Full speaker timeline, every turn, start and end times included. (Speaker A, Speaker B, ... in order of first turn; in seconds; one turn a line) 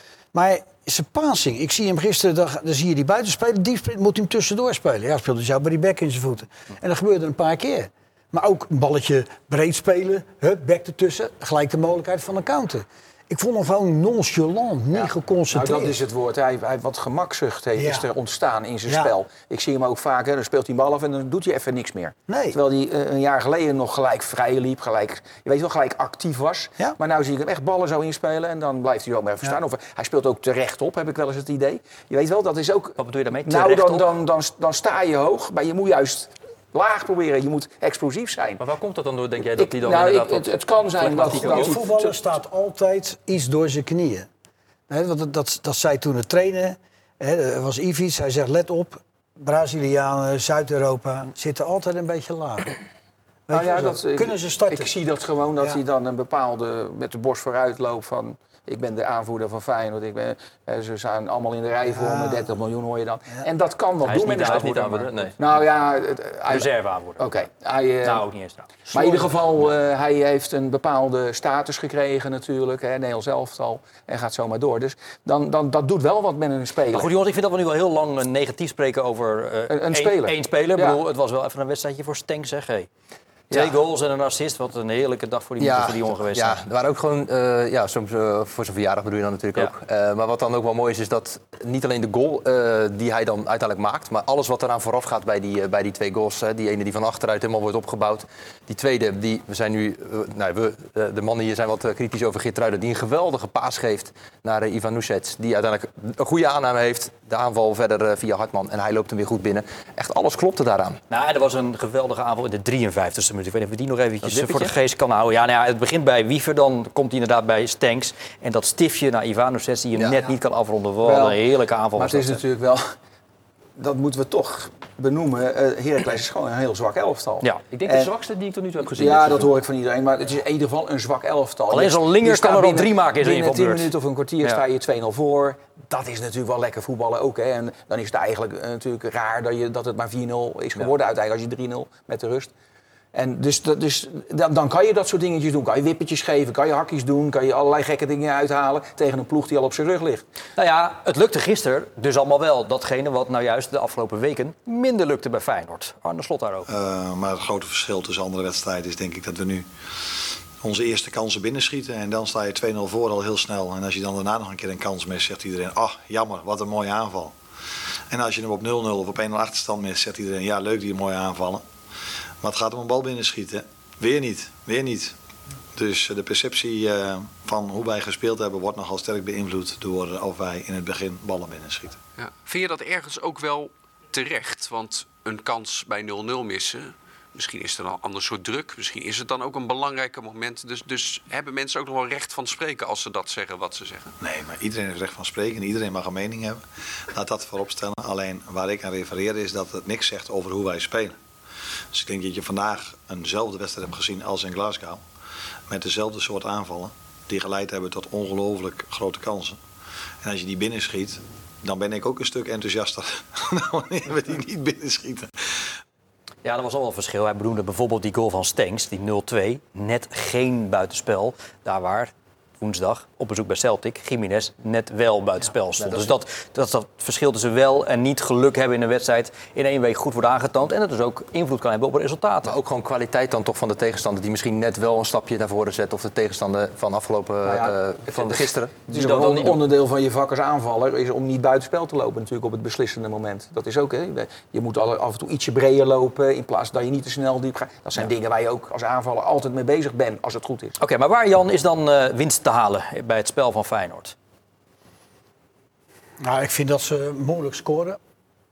Speaker A: 0.3-16.0
Speaker B: 15.0-38.6
Speaker A: 17.8-18.1
Speaker A: 18.9-19.1
Speaker A: 22.3-22.6
Speaker C: 33.0-34.1
Speaker D: 38.6-41.6
Speaker B: 39.5-42.1
Speaker C: 41.0-41.6
Speaker A: 41.3-44.3
Speaker A: 44.9-52.8
Speaker A: 53.5-54.9
Speaker B: 53.5-68.2
Speaker A: 61.9-62.5
Speaker C: 64.0-65.2
Speaker D: 64.0-65.3
Speaker C: 66.5-67.3
Speaker C: 68.0-69.3
Speaker B: 68.9-77.1
Speaker C: 76.9-82.9
Speaker B: 79.7-81.0
Speaker C: 83.5-86.6
Speaker D: 85.6-111.0
Speaker C: 111.1-122.4
Speaker D: 114.2-114.7
Speaker D: 120.0-120.2
Speaker B: 121.0-121.4
Speaker B: 122.0-122.9
Speaker B: 123.8-128.1
Speaker D: 127.7-129.5
Speaker B: 128.9-142.5
Speaker C: 131.7-134.6
Speaker B: 143.1-150.2
Speaker C: 150.6-156.7
Speaker E: 156.7-167.3
Speaker E: 168.1-171.6
Speaker E: 172.4-175.1
Speaker E: 175.7-182.0
Speaker F: 182.2-194.1
Speaker E: 194.2-201.2
Speaker E: 201.9-205.0
Speaker E: 205.7-209.6
Speaker E: 210.2-215.7
Speaker C: 216.4-232.5
Speaker D: 225.8-226.1
Speaker D: 232.4-239.6
Speaker B: 237.4-250.8
Speaker C: 238.9-239.5
Speaker C: 250.8-254.1
Speaker A: 256.2-258.0